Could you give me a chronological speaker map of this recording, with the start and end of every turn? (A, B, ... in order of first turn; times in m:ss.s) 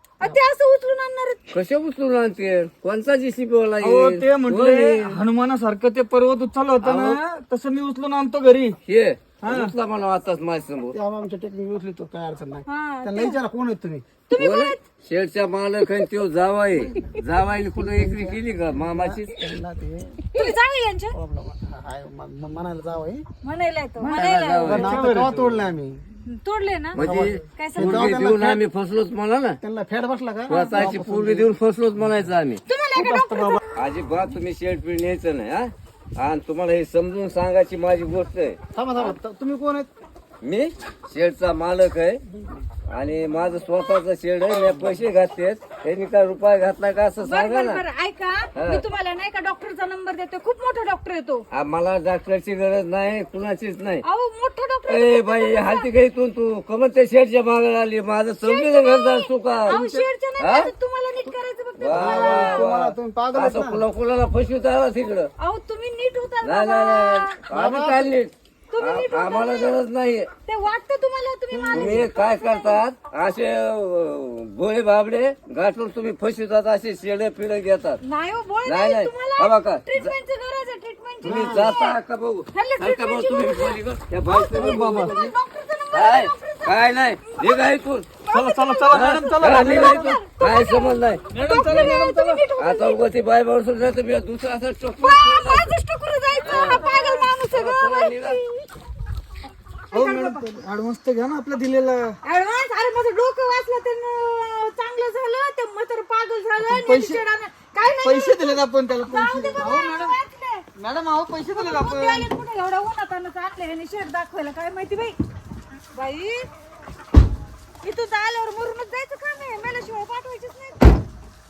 0:00.2-0:01.5 A
0:01.5-0:05.2 B
0:03.8-0:08.8 C
0:06.8-0:07.2 B
0:08.8-0:11.0 B
0:09.4-0:09.7 C
0:10.9-0:14.0 D
0:12.7-0:13.4 A
0:14.3-0:14.8 A
0:14.4-0:19.3 B
0:16.7-0:20.4 D
0:20.3-0:21.2 A
0:21.1-0:23.2 D
0:23.4-0:25.0 A
0:24.1-0:25.3 B
0:24.6-0:25.5 C
0:24.6-0:26.0 D
0:26.3-0:28.1 A
0:26.9-0:29.6 B
0:27.0-0:28.6 D
0:29.6-0:31.5 D
0:30.5-0:32.6 B
0:32.6-0:33.6 A
0:32.9-0:33.6 C
0:33.8-0:39.2 B
0:38.7-0:39.9 D
0:40.4-0:42.2 B
0:42.3-0:42.6 D
0:42.9-0:47.8 B
0:47.2-0:51.4 A
0:48.5-0:48.8 B
0:51.5-0:54.0 B
0:54.0-0:55.9 A
0:54.9-0:59.8 B
0:58.4-1:02.6 A
0:59.7-1:00.1 D
1:00.4-1:00.7 B
1:01.8-1:05.3 B
1:01.9-1:03.8 D
1:05.4-1:07.4 A
1:06.4-1:10.3 B
1:07.5-1:08.1 D
1:08.7-1:09.8 A
1:10.4-1:12.8 A
1:11.5-1:12.0 D
1:11.7-1:18.0 B
1:18.0-1:22.0 A
1:18.6-1:20.1 B
1:21.2-1:21.7 D
1:21.2-1:25.3 B
1:22.5-1:27.7 A
1:24.5-1:25.2 C
1:25.9-1:28.2 B
1:28.2-1:33.0 A
1:28.3-1:30.2 C
1:28.9-1:32.0 B
1:31.3-1:32.4 C
1:32.6-1:35.8 B
1:35.0-1:38.7 A
1:36.4-1:36.9 B
1:36.6-1:37.1 C
1:37.4-1:38.4 B
1:39.9-1:40.5 A
1:39.9-1:42.2 C
1:42.2-1:50.7 A
1:46.6-1:47.2 C
1:47.9-1:50.2 C
1:50.7-1:52.3 C
1:51.5-1:55.2 A
1:55.9-1:56.4 A
1:57.8-2:00.9 A